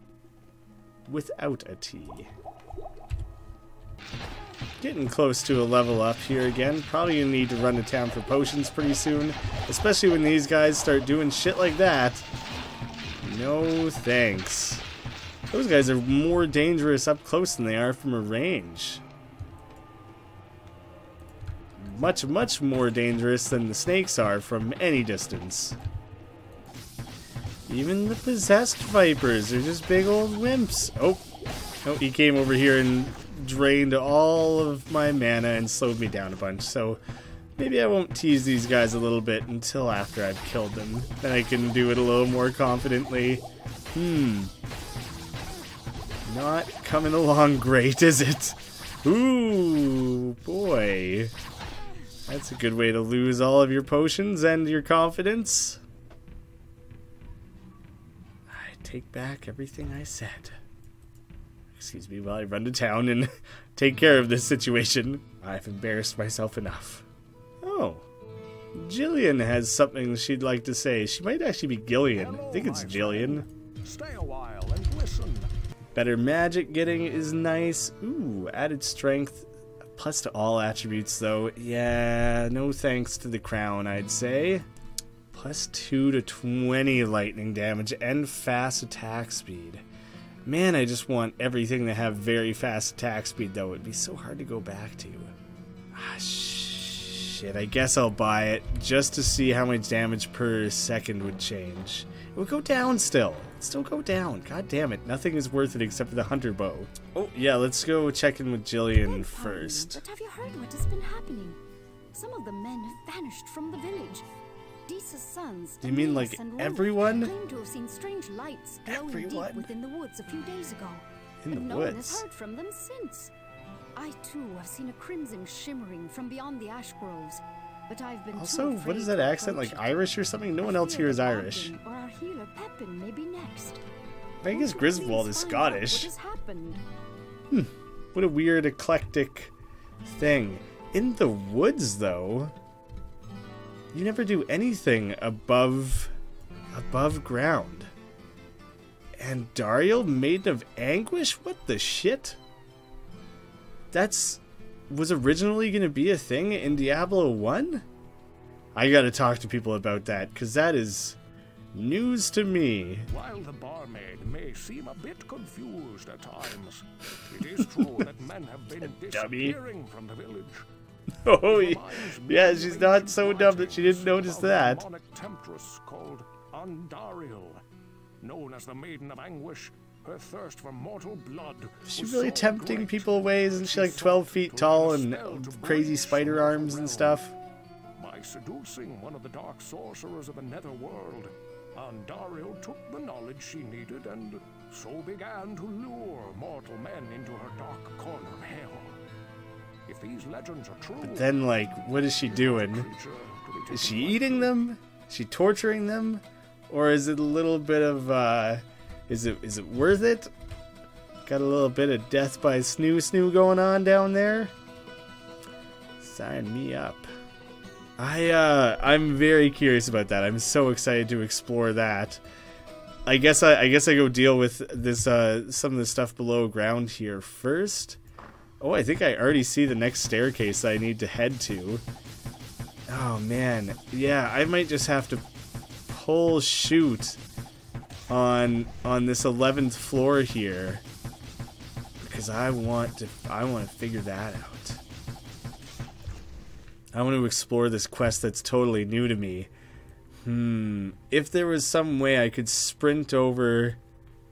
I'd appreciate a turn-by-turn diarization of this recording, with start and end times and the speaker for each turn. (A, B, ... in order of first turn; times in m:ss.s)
0:01.1-0:02.3 A
0:04.8-0:12.3 A
0:13.2-0:14.8 A
0:15.5-0:19.0 A
0:21.8-0:25.8 A
0:27.7-0:31.2 A
0:31.8-0:37.0 A
0:37.6-0:44.5 A
0:46.2-0:51.3 A
0:52.3-0:55.8 A
0:58.5-1:00.6 A
1:01.7-1:07.1 A
1:07.6-1:08.1 A
1:08.8-1:13.5 A
1:12.1-1:15.5 B
1:16.0-1:24.6 A
1:25.3-1:29.8 A
1:30.5-1:35.3 A
1:35.9-1:50.0 A
1:49.0-1:51.6 C
1:52.1-1:54.3 C
1:54.9-2:03.3 C
1:55.8-1:57.3 A
1:58.9-1:59.7 A
2:01.4-2:02.2 A
2:04.0-2:13.8 C
2:08.3-2:11.7 A
2:14.4-2:16.1 A
2:14.5-2:16.8 C
2:17.5-2:19.5 A
2:20.0-2:22.5 A
2:23.9-2:26.1 A
2:26.7-2:27.9 A
2:29.2-2:32.4 A
2:33.9-2:37.8 A
2:38.8-2:41.2 A
2:41.7-2:43.1 A
2:43.1-2:50.7 B
2:48.8-2:49.6 A
2:51.2-2:54.8 A
2:51.4-2:57.6 B
2:58.2-3:07.2 B
3:01.8-3:07.4 A
3:08.0-3:19.0 B
3:19.9-3:21.3 B
3:21.0-3:22.9 A
3:22.2-3:24.5 B
3:23.7-3:30.3 A
3:31.3-3:34.5 A
3:36.0-3:37.1 A
3:38.0-3:42.2 A
3:43.1-3:48.0 A
3:48.6-3:51.8 A
3:52.9-3:55.3 A
3:55.9-3:57.2 A
3:58.1-4:00.8 A
4:02.0-4:04.8 A
4:06.9-4:09.5 A
4:10.2-4:13.8 A